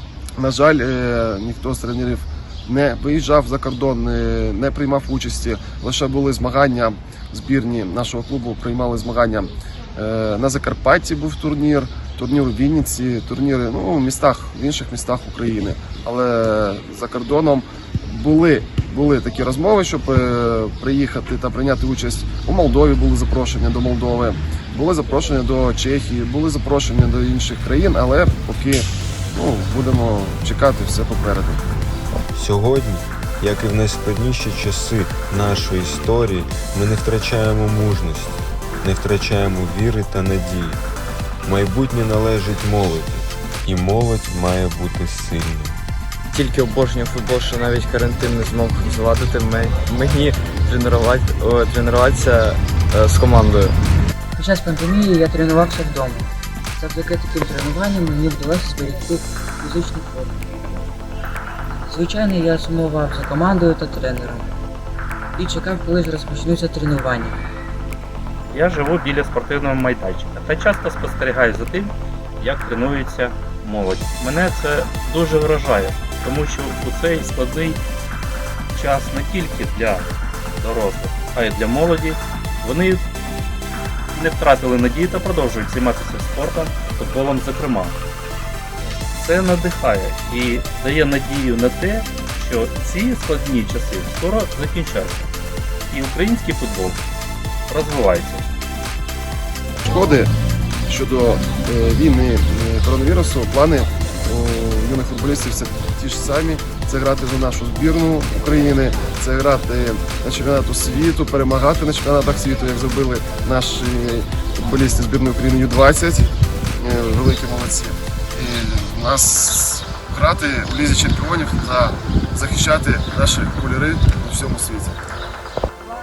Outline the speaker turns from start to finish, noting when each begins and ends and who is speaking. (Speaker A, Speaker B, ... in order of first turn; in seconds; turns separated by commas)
Speaker A: 0.4-31.6, Speaker B: 32.3-40.8, Speaker B: 41.4-45.8, Speaker C: 46.3-53.8, Speaker D: 54.4-56.2, Speaker D: 56.8-60.4, Speaker D: 61.9-64.5, Speaker D: 65.4-67.3, Speaker E: 68.5-77.8, Speaker E: 78.7-83.0, Speaker E: 84.1-88.0, Speaker E: 89.1-95.3, Speaker E: 95.9-97.0, Speaker E: 97.7-98.4, Speaker A: 99.8-100.3, Speaker A: 100.9-125.0